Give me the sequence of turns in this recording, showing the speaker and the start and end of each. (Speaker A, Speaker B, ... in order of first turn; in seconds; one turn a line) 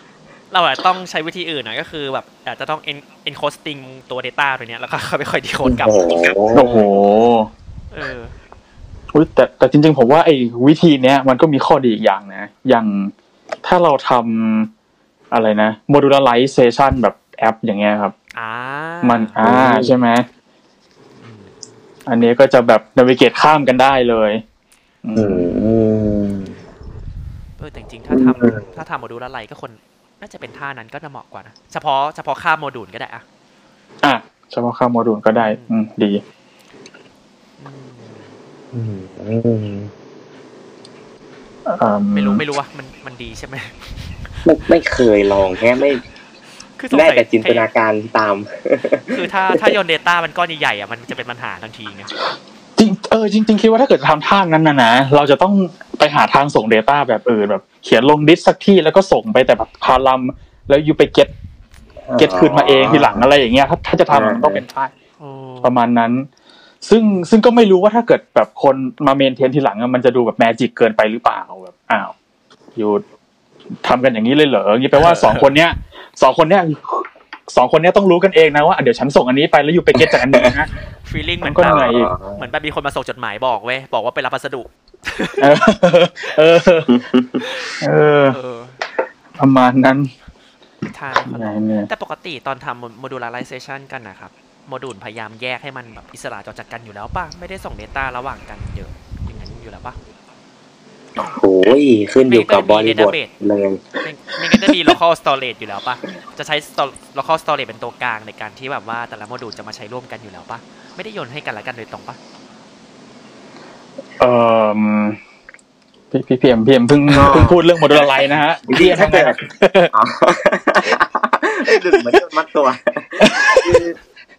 Speaker A: 0.5-6.3
Speaker B: 5.7-6.9
Speaker C: 6.5-7.5
Speaker A: 7.9-8.3
Speaker C: 9.1-13.1
Speaker C: 13.6-14.7
Speaker C: 15.3-18.1
Speaker A: 18.4-19.4
Speaker C: 19.0-20.3
Speaker B: 19.4-19.9
Speaker A: 21.2-21.5
Speaker C: 22.1-24.4
Speaker C: 25.0-25.5
Speaker B: 25.1-26.6
Speaker A: 27.6-33.2
Speaker B: 28.1-28.7
Speaker C: 34.0-36.2
Speaker A: 35.4-35.7
Speaker A: 37.6-38.4
Speaker B: 38.7-39.9
Speaker C: 41.7-42.4
Speaker A: 42.1-43.8
Speaker B: 44.5-46.0
Speaker A: 46.8-47.7
Speaker B: 46.9-49.6
Speaker A: 49.1-52.1
Speaker C: 52.8-61.3
Speaker B: 62.1-63.3
Speaker C: 62.2-64.9
Speaker B: 64.1-64.6
Speaker A: 65.2-65.7
Speaker C: 65.6-66.3
Speaker C: 66.8-72.1
Speaker C: 72.8-73.0
Speaker C: 73.8-80.7
Speaker A: 74.9-75.6
Speaker B: 80.0-80.6
Speaker A: 81.0-85.5
Speaker C: 81.4-82.1
Speaker B: 81.7-82.4
Speaker C: 85.4-87.0
Speaker B: 86.9-87.4
Speaker A: 87.4-87.7
Speaker C: 87.8-88.4
Speaker A: 88.3-88.8
Speaker C: 89.4-90.1
Speaker A: 90.9-100.0
Speaker C: 91.2-91.9
Speaker B: 101.2-103.8
Speaker A: 102.3-103.3
Speaker A: 104.0-112.2
Speaker C: 114.2-115.2
Speaker C: 116.1-119.9
Speaker B: 117.1-118.0
Speaker B: 118.7-119.4
Speaker B: 119.9-124.0
Speaker C: 121.9-122.2
Speaker C: 123.2-123.8